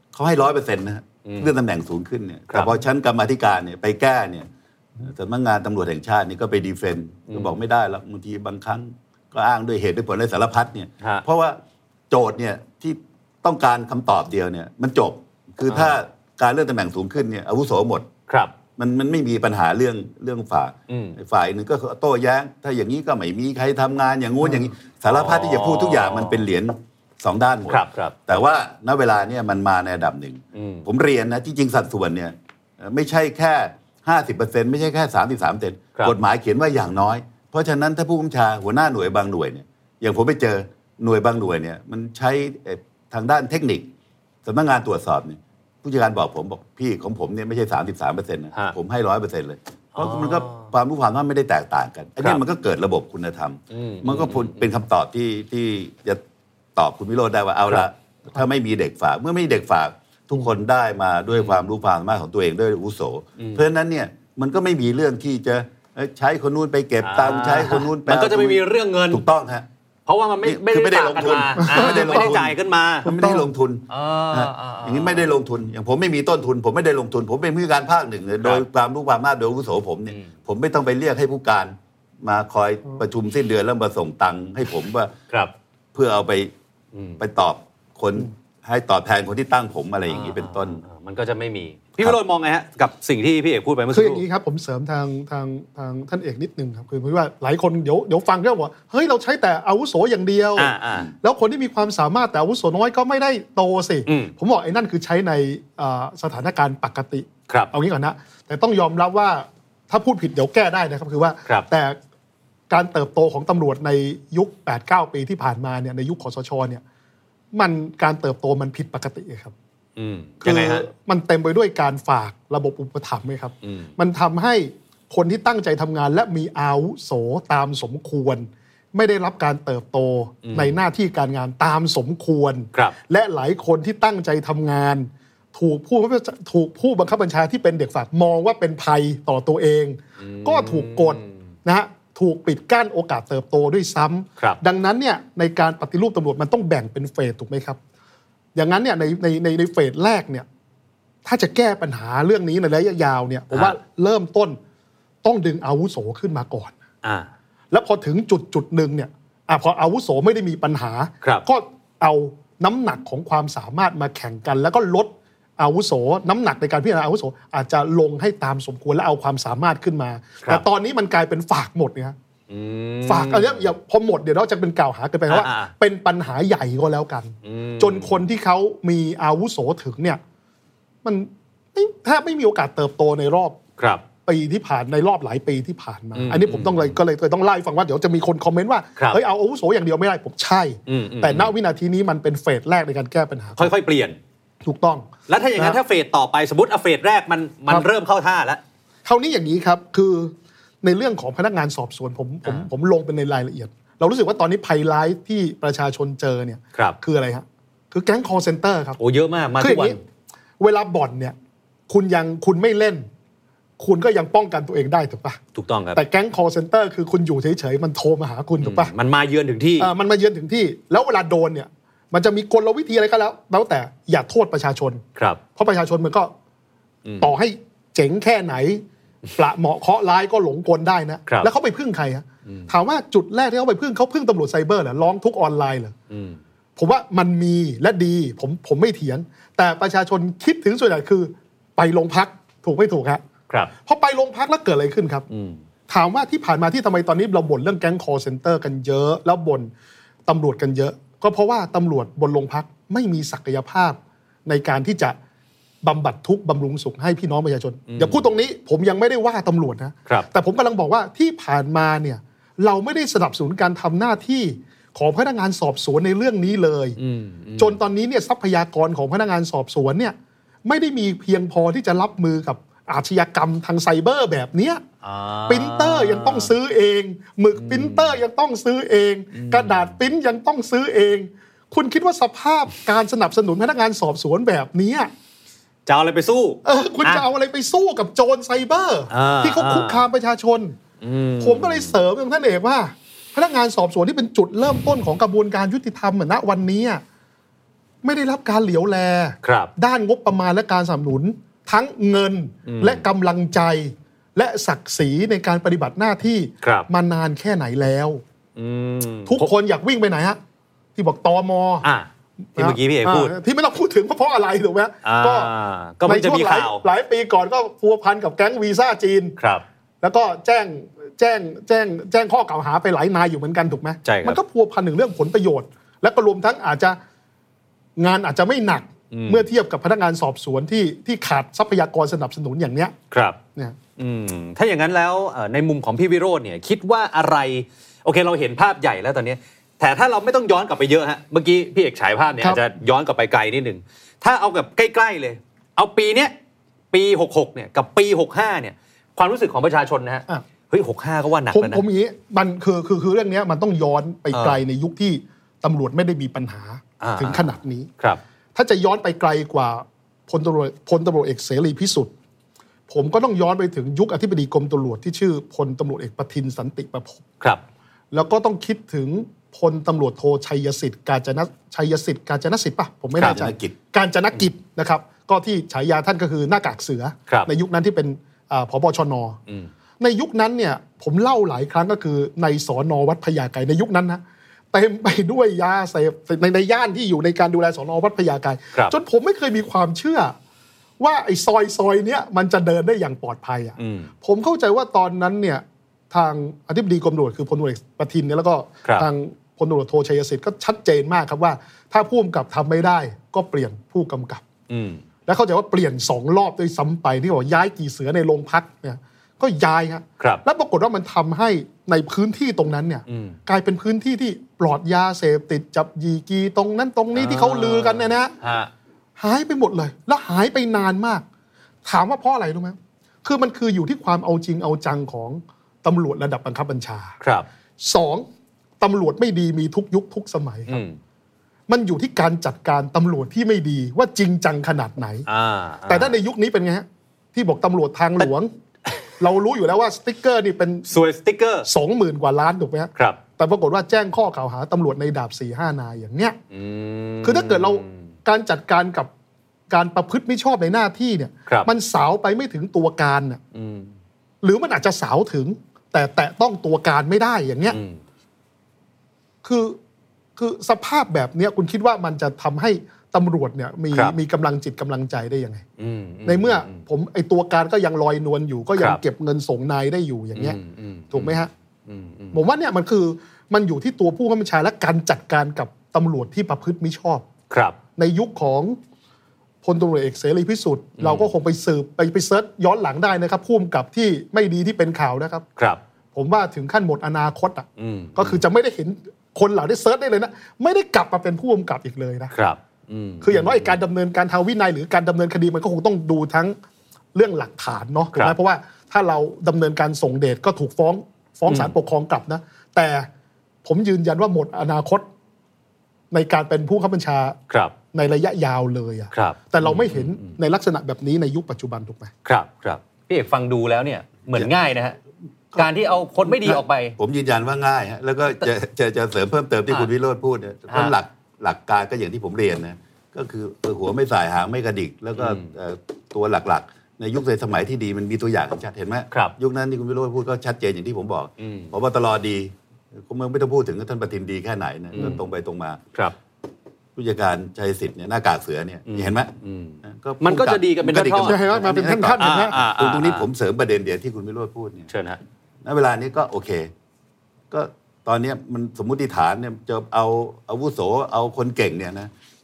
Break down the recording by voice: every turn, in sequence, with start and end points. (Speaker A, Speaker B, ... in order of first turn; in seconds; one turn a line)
Speaker A: 0.1-4.5
Speaker B: 1.2-1.5
Speaker A: 5.0-11.6
Speaker B: 7.3-7.6
Speaker A: 12.1-18.1
Speaker B: 15.7-16.0
Speaker B: 18.3-18.6
Speaker A: 18.8-43.9
Speaker B: 20.9-21.2
Speaker B: 24.6-26.5
Speaker B: 27.7-28.3
Speaker B: 30.6-30.9
Speaker A: 44.5-56.2
Speaker B: 50.0-50.7
Speaker B: 53.7-54.6
Speaker A: 56.8-69.7
Speaker B: 61.3-61.6
Speaker B: 63.4-63.6
Speaker B: 67.0-69.2
Speaker B: 70.1-73.1
Speaker A: 70.4-85.1
Speaker C: 71.6-72.3
Speaker C: 73.0-73.4
Speaker B: 73.9-75.3
Speaker A: 85.9-86.5
Speaker B: 86.9-87.2
Speaker A: 87.2-90.8
Speaker B: 90.1-94.2
Speaker C: 93.9-112.0
Speaker B: 100.6-101.1
Speaker B: 104.1-104.3
Speaker C: 112.7-116.8
Speaker C: 117.5-119.5
Speaker B: 120.0-120.9
Speaker C: 120.4-147.8
Speaker B: 123.6-123.9
Speaker B: 130.4-130.8
Speaker B: 140.2-141.3
Speaker C: 148.6-150.5
Speaker C: 151.2-154.6
Speaker B: 153.5-153.8
Speaker C: 155.2-156.7
Speaker B: 157.0-157.3
Speaker C: 157.7-172.2
Speaker B: 172.5-173.6
Speaker C: 173.1-180.2
Speaker B: 175.3-175.7
Speaker B: 177.4-178.2
Speaker C: 181.0-183.6
Speaker B: 183.8-184.0
Speaker C: 184.2-193.7
Speaker B: 186.2-187.0
Speaker B: 190.9-191.5
Speaker B: 193.6-194.2
Speaker C: 194.7-195.8
Speaker B: 195.3-198.6
Speaker C: 199.1-209.0
Speaker B: 209.0-210.0
Speaker C: 209.6-210.0
Speaker C: 210.6-211.3
Speaker C: 211.9-213.1
Speaker C: 213.8-215.4
Speaker B: 215.6-216.0
Speaker C: 215.9-218.9
Speaker B: 218.6-219.9
Speaker C: 219.8-225.0
Speaker C: 225.6-226.3
Speaker B: 227.1-227.3
Speaker C: 227.2-228.8
Speaker C: 229.4-235.9
Speaker B: 236.1-236.4
Speaker C: 236.8-243.2
Speaker C: 243.8-245.3
Speaker B: 245.3-245.6
Speaker C: 245.9-249.7
Speaker C: 250.3-255.2
Speaker C: 255.8-267.0
Speaker B: 257.9-258.2
Speaker B: 267.0-267.8
Speaker C: 267.6-274.8
Speaker B: 275.0-276.5
Speaker C: 275.5-285.1
Speaker B: 277.6-278.2
Speaker B: 279.3-279.9
Speaker B: 285.9-287.2
Speaker C: 286.6-290.8
Speaker B: 289.1-290.0
Speaker B: 291.0-292.0
Speaker C: 291.4-297.0
Speaker C: 298.0-308.2
Speaker B: 299.4-299.7
Speaker B: 302.7-303.0
Speaker B: 306.6-306.9
Speaker B: 308.6-309.5
Speaker C: 309.3-310.4
Speaker C: 311.0-311.9
Speaker B: 311.8-313.3
Speaker C: 312.6-315.5
Speaker B: 315.0-316.8
Speaker C: 316.1-319.4
Speaker B: 319.4-319.6
Speaker C: 320.0-327.0
Speaker B: 324.1-324.4
Speaker C: 328.0-332.9
Speaker B: 329.1-329.4
Speaker B: 333.1-333.4
Speaker B: 334.0-346.3
Speaker B: 346.9-351.8
Speaker C: 351.5-357.9
Speaker B: 354.3-354.6
Speaker B: 357.0-358.2
Speaker C: 358.6-362.1
Speaker C: 362.9-367.2
Speaker C: 368.1-379.4
Speaker B: 373.2-373.4
Speaker A: 373.2-373.8
Speaker C: 380.0-384.2
Speaker C: 384.7-390.4
Speaker C: 391.0-404.4
Speaker B: 393.8-394.1
Speaker B: 404.7-405.0
Speaker C: 405.3-418.3
Speaker B: 413.1-413.4
Speaker B: 417.1-418.7
Speaker C: 419.2-421.2
Speaker C: 421.9-427.2
Speaker B: 427.2-427.5
Speaker C: 427.8-428.3
Speaker C: 428.8-430.8
Speaker B: 430.7-431.0
Speaker C: 431.7-435.3
Speaker B: 435.3-436.2
Speaker C: 435.9-438.5
Speaker C: 439.2-440.9
Speaker B: 440.9-441.7
Speaker C: 441.7-446.4
Speaker B: 446.5-448.0
Speaker C: 447.2-449.1
Speaker C: 449.7-453.4
Speaker B: 453.5-453.9
Speaker C: 454.4-457.8
Speaker B: 457.7-458.0
Speaker C: 459.4-459.8
Speaker C: 460.4-465.6
Speaker B: 465.8-466.8
Speaker C: 466.3-470.6
Speaker B: 470.4-472.4
Speaker C: 471.1-471.5
Speaker C: 472.3-477.2
Speaker B: 477.5-477.8
Speaker C: 478.0-478.8
Speaker C: 479.6-485.4
Speaker B: 481.0-481.3
Speaker C: 486.1-492.3
Speaker B: 487.8-488.4
Speaker B: 492.3-493.8
Speaker C: 493.2-496.6
Speaker C: 497.1-503.1
Speaker B: 501.5-501.7
Speaker C: 503.6-505.1
Speaker C: 506.1-507.4
Speaker B: 507.5-507.8
Speaker C: 507.9-512.1
Speaker B: 509.1-510.3
Speaker B: 512.2-515.0
Speaker B: 515.5-517.0
Speaker A: 516.4-535.8
Speaker B: 525.2-525.5
Speaker B: 531.4-531.7
Speaker B: 534.9-535.2
Speaker A: 537.0-544.9
Speaker B: 538.9-541.5
Speaker C: 541.2-542.5
Speaker B: 542.2-543.3
Speaker B: 544.9-545.2
Speaker A: 545.6-546.7
Speaker A: 547.5-552.1